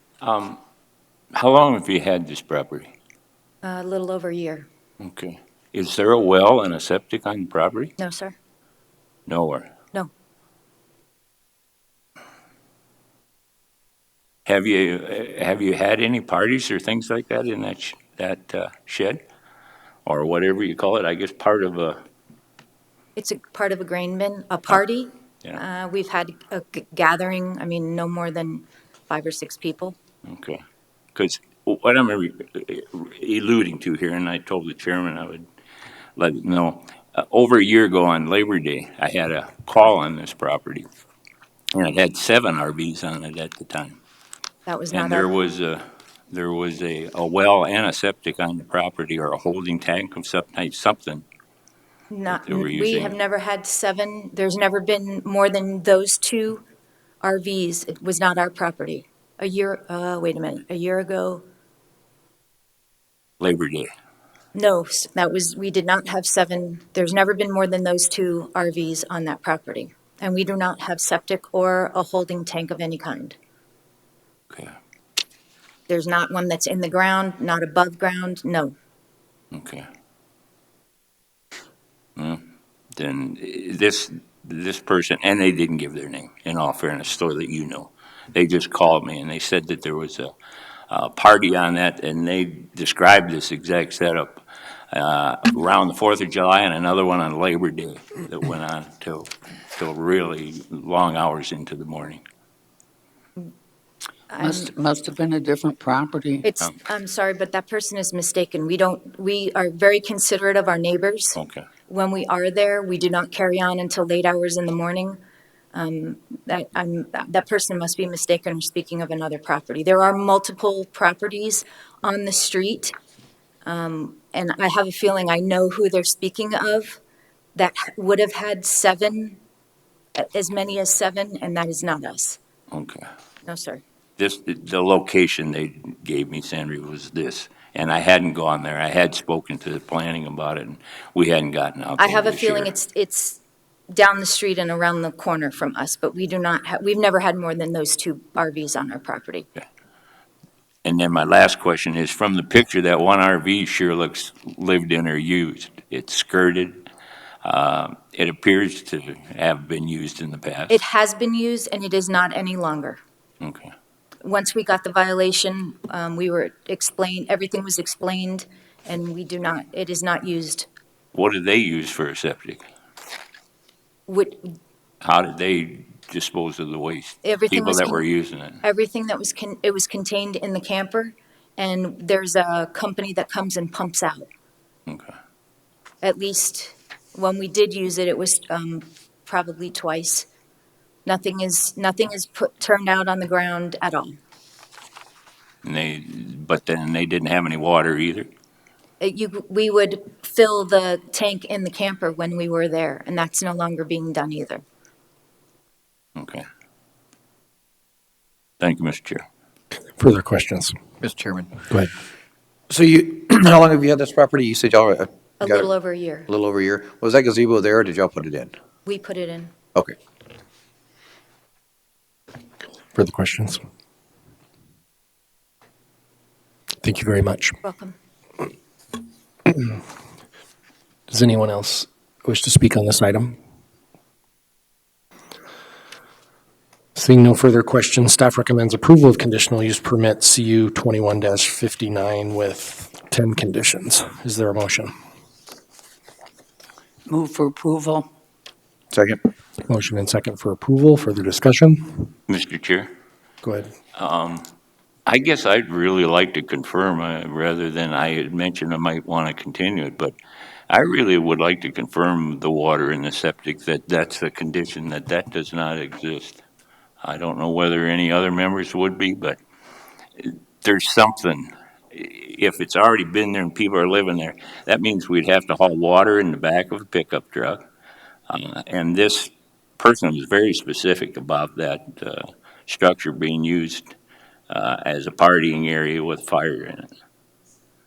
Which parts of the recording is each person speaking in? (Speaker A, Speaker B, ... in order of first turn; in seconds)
Speaker A: 0.2-0.6, 1.3-2.9, 5.0-7.9, 9.3-9.7, 14.4-19.2, 20.1-22.0, 30.3-30.6, 31.1-35.4, 36.2-40.9, 41.7-44.0, 44.9-51.2, 52.3-53.1, 63.4-63.9, 79.5-79.8, 82.2-82.4, 83.0-90.3, 90.9-102.2, 111.3-111.6, 132.7-133.1, 134.2-142.7, 150.8-156.9, 157.4-160.8, 163.4-163.7, 171.1-172.6, 175.0-178.6, 184.9-185.1, 195.6-198.3, 206.2-206.4, 208.6-209.2, 252.3-252.9, 253.9-254.5, 255.1-260.1, 260.7-266.4, 267.0-269.4, 270.2-277.6, 278.3-283.9, 284.5-286.9
Speaker B: 3.6-4.7, 8.0-8.3, 23.1-29.9, 44.6-45.3, 52.1-56.6, 57.2-61.4, 64.5-73.4, 75.9-78.7, 104.3-104.7, 106.4-111.4, 111.9-115.2, 115.7-122.9, 123.6-127.0, 127.5-129.4, 130.2-132.4, 133.5-133.8, 142.0-143.4, 143.9-149.5, 160.7-163.0, 164.2-170.7, 174.1-174.5, 177.2-178.0, 178.6-184.3, 186.0-190.3, 191.1-194.1, 199.0-204.6, 215.4-216.3, 218.8-219.5, 227.6-227.9
Speaker C: 104.4-106.5, 247.1-248.1
Speaker D: 210.0-210.7, 222.9-223.6, 226.8-227.6, 229.5-229.8, 231.1-233.3, 236.9-244.9, 249.7-252.1, 253.4-253.7
Speaker E: 211.0-211.7, 212.7-215.7, 216.3-218.5, 248.9-249.2